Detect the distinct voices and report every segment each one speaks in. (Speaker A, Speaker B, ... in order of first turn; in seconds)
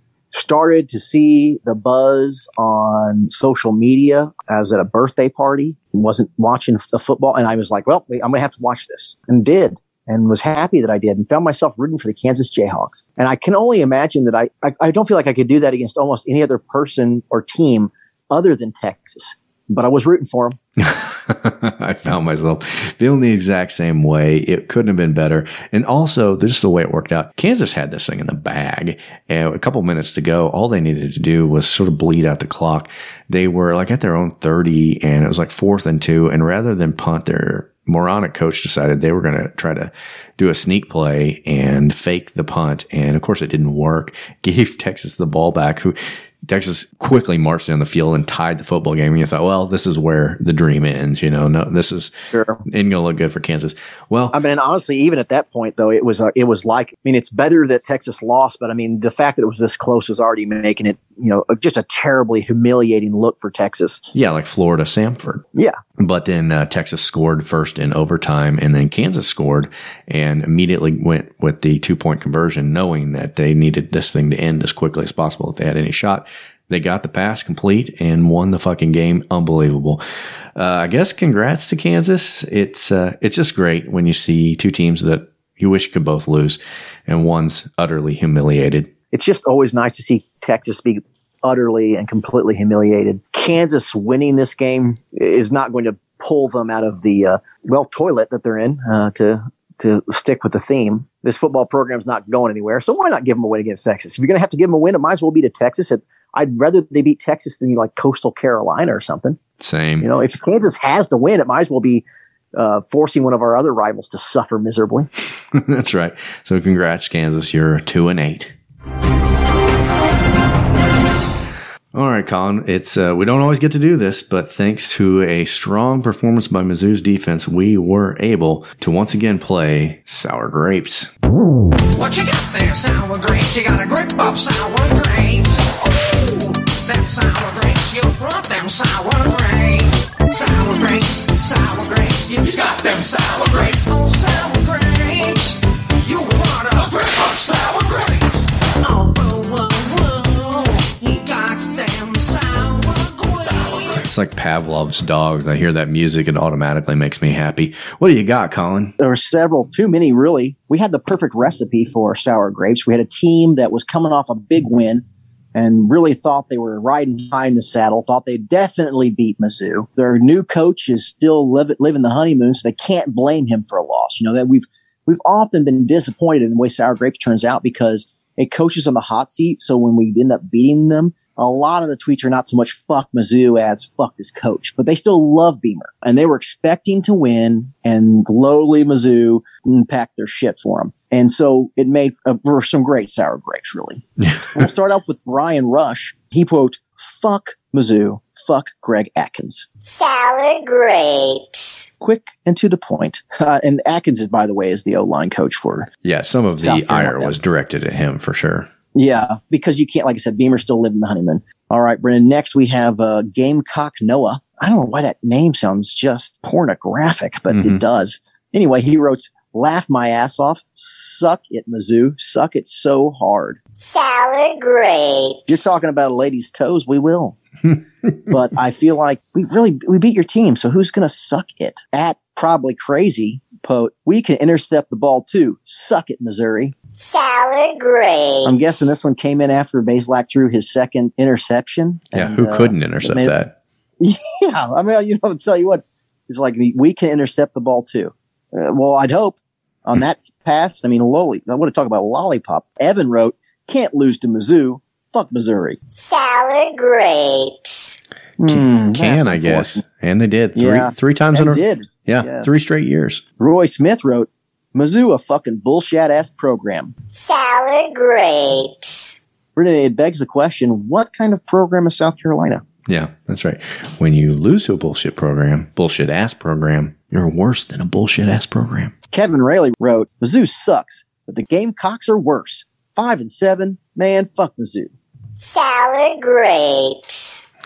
Speaker A: 0.3-20.6, 52.3-52.6, 54.3-64.0, 89.1-109.4, 110.0-112.0, 112.5-115.1, 159.0-194.0, 194.6-199.7, 202.0-205.9, 206.6-207.3, 208.9-223.6, 225.5-227.4, 228.3-236.7, 238.4-243.3, 244.0-255.8, 258.4-259.8, 260.6-262.5, 263.4-266.9, 269.6-272.6, 279.1-284.9
Speaker B: 20.8-52.1, 52.7-54.4, 64.1-65.4, 66.0-80.0, 80.6-88.9, 109.6-110.1, 115.5-118.5, 121.9-131.1, 154.0-158.9, 194.2-194.7, 206.0-208.7, 217.5-217.8, 227.7-228.2, 242.1-243.6, 258.5-263.2, 272.9-278.9
Speaker C: 131.9-154.0
Speaker D: 199.8-201.9, 223.8-225.7, 236.9-238.9, 255.9-258.0, 267.1-269.2, 285.4-287.4